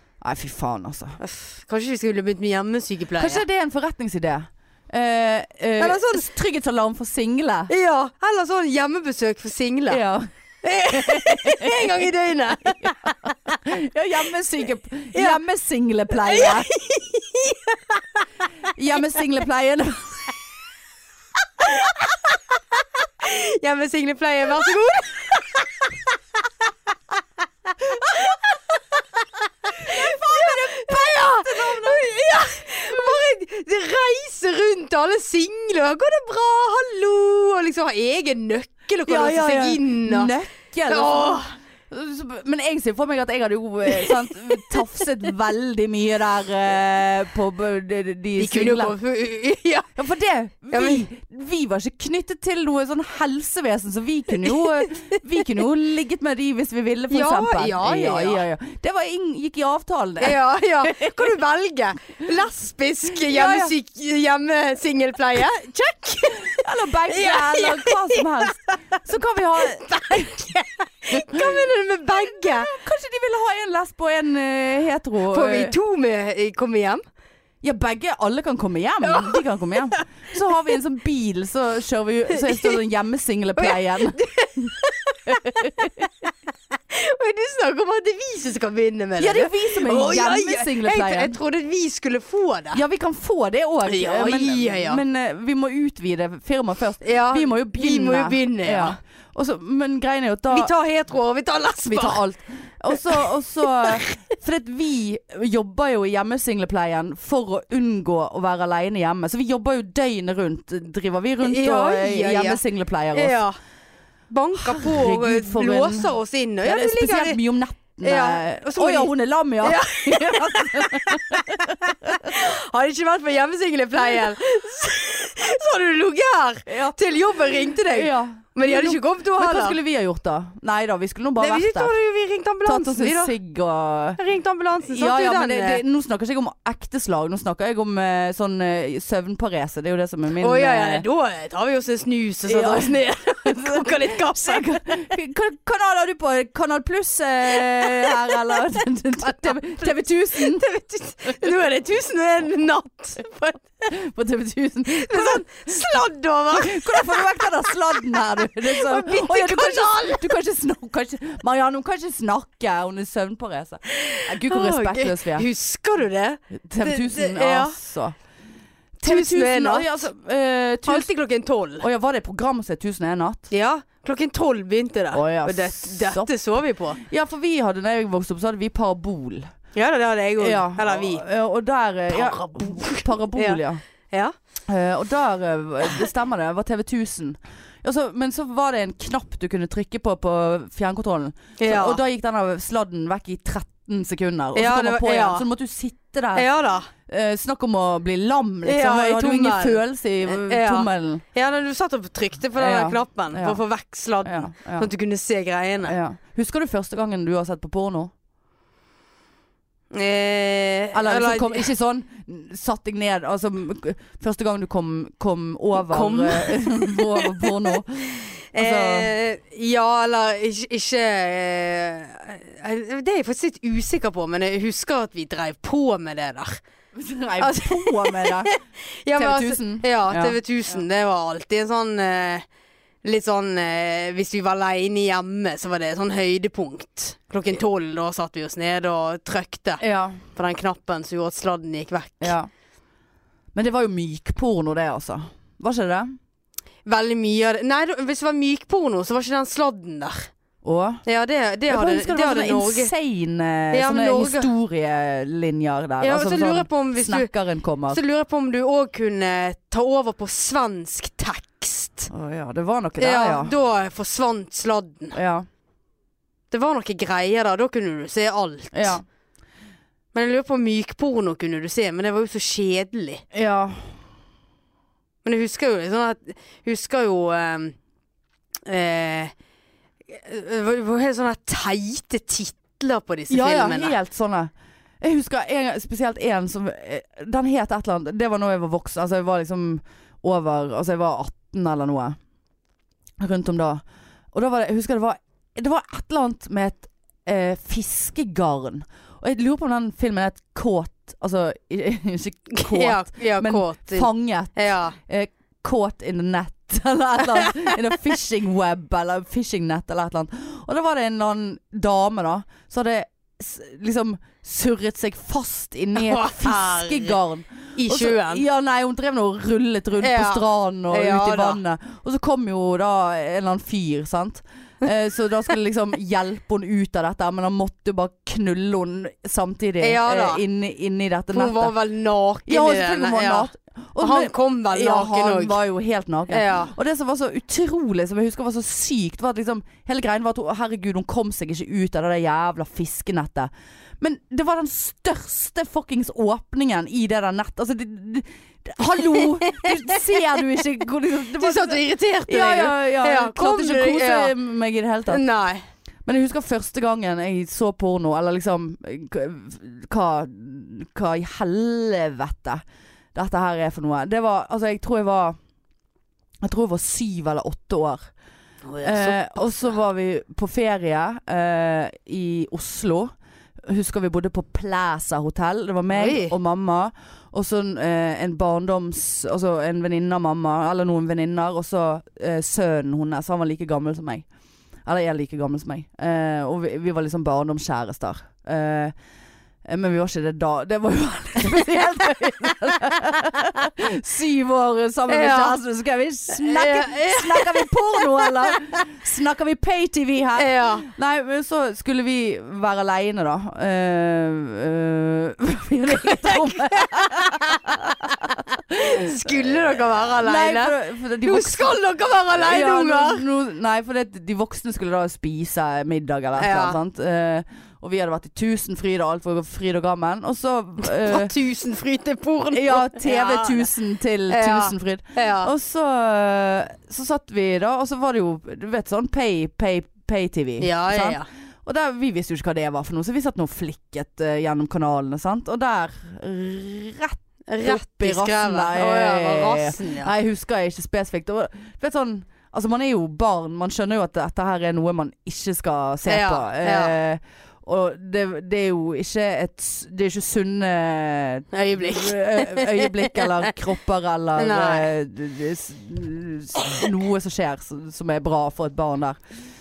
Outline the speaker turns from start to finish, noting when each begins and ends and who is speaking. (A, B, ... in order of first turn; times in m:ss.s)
0:00.2-0:01.2 A
0:01.2-0:03.4 B
0:03.2-0:07.7 A
0:05.8-0:06.3 B
0:07.7-0:10.0 B
0:09.9-0:10.3 A
0:10.6-0:13.6 B
0:10.9-0:12.1 A
0:12.7-0:16.7 A
0:15.1-0:15.4 B
0:16.2-0:18.3 B
0:18.8-0:20.2 A
0:21.6-0:26.0 B
0:27.8-0:40.3 B
0:29.8-0:32.1 A
0:32.9-0:33.1 A
0:39.1-0:49.0 A
0:40.9-0:41.5 B
0:48.4-0:49.9 B
0:50.0-1:01.4 A
0:50.7-0:51.0 B
0:57.1-0:58.4 B
1:00.2-1:08.8 B
1:03.2-1:03.7 A
1:06.4-1:10.4 A
1:09.6-1:12.7 B
1:11.1-1:11.7 A
1:12.4-1:15.8 A
1:15.3-1:17.0 B
1:17.6-1:24.7 A
1:19.0-1:19.4 B
1:22.3-1:22.8 B
1:23.6-1:26.3 B
1:25.3-1:26.0 A
1:26.9-1:32.8 B
1:29.2-1:31.4 A
1:32.7-1:40.7 A
1:33.9-1:35.0 B
1:37.0-1:39.0 B
1:40.5-1:42.2 B
1:41.8-1:53.4 A
1:42.9-1:44.2 B
1:51.4-1:52.6 B
1:53.1-1:53.6 B
1:54.3-1:57.4 B
1:54.6-1:56.1 A
1:56.6-2:02.4 A
1:58.0-1:59.1 B
1:59.6-2:09.8 B
2:06.7-2:07.0 A
2:07.9-2:11.9 A
2:11.4-2:13.4 B
2:12.6-2:14.2 A
2:14.2-2:15.8 B
2:14.9-2:21.0 A
2:20.4-2:25.1 B
2:22.5-2:30.6 A
2:27.6-2:28.6 B
2:29.2-2:33.9 B
2:33.9-2:35.6 A
2:34.9-2:40.4 B
2:36.5-2:45.5 A
2:43.9-2:47.8 B
2:46.5-2:48.2 A
2:49.0-2:51.1 A
2:49.0-2:50.0 B
2:50.9-2:51.9 B
2:51.8-2:53.5 A
2:53.5-2:57.0 B
2:55.1-2:56.3 A
2:57.0-2:59.5 A
2:59.8-3:01.2 B
3:00.4-3:03.8 A
3:02.1-3:04.3 B
3:04.7-3:16.5 A
3:11.6-3:12.0 B
3:14.6-3:15.5 B
3:16.4-3:16.9 B
3:17.1-3:21.2 A
3:18.6-3:26.0 B
3:22.6-3:23.6 A
3:24.2-3:24.9 A
3:25.8-3:28.1 A
3:29.9-3:31.7 B
3:30.9-3:39.1 A
3:35.8-3:37.7 B
3:38.5-3:46.6 B
3:47.0-3:48.5 A
3:47.4-3:52.5 B
3:49.2-3:50.8 A
3:53.0-4:02.4 B
3:59.8-4:00.2 A
4:02.2-4:02.5 A
4:03.5-4:06.2 A
4:06.9-4:10.3 B
4:10.6-4:11.0 A
4:11.1-4:12.9 B
4:11.7-4:18.0 A
4:13.7-4:14.5 B
4:16.0-4:17.3 B
4:17.9-4:22.1 B
4:22.1-4:23.5 A
4:23.0-4:25.2 B
4:25.1-4:25.5 A
4:26.5-4:29.0 B
4:28.7-4:29.0 A
4:30.1-4:33.2 B
4:33.3-4:33.9 A
4:35.2-4:37.8 B
4:38.7-4:39.3 B
4:40.1-4:44.0 B
4:43.3-4:52.2 A
4:53.2-5:31.7 A
5:02.5-5:05.0 B
5:07.3-5:07.7 B
5:16.0-5:17.2 B
5:17.8-5:18.4 B
5:20.0-5:21.6 B
5:29.8-5:30.4 B
5:31.3-5:35.6 B
5:32.5-5:55.2 A
5:36.3-5:36.7 B
5:51.4-5:54.4 B
5:55.1-5:55.6 B
5:56.0-6:02.6 A
6:03.2-6:05.4 A
6:06.4-6:08.1 A
6:08.6-6:09.8 B
6:08.8-6:13.1 A
6:13.6-6:24.3 A
6:15.9-6:16.4 B
6:24.9-6:28.9 A
6:29.6-6:51.7 A
6:35.1-6:35.6 B
6:36.3-6:38.8 B
6:40.4-6:40.9 B
6:46.0-6:53.2 B
6:52.3-7:01.3 A
6:56.4-6:56.8 B
7:00.8-7:03.7 B
7:02.5-7:39.2 A
7:04.3-7:05.5 B
7:10.6-7:11.3 B
7:17.5-7:20.1 B
7:26.1-7:27.0 B
7:31.5-7:33.5 B
7:34.4-7:34.9 B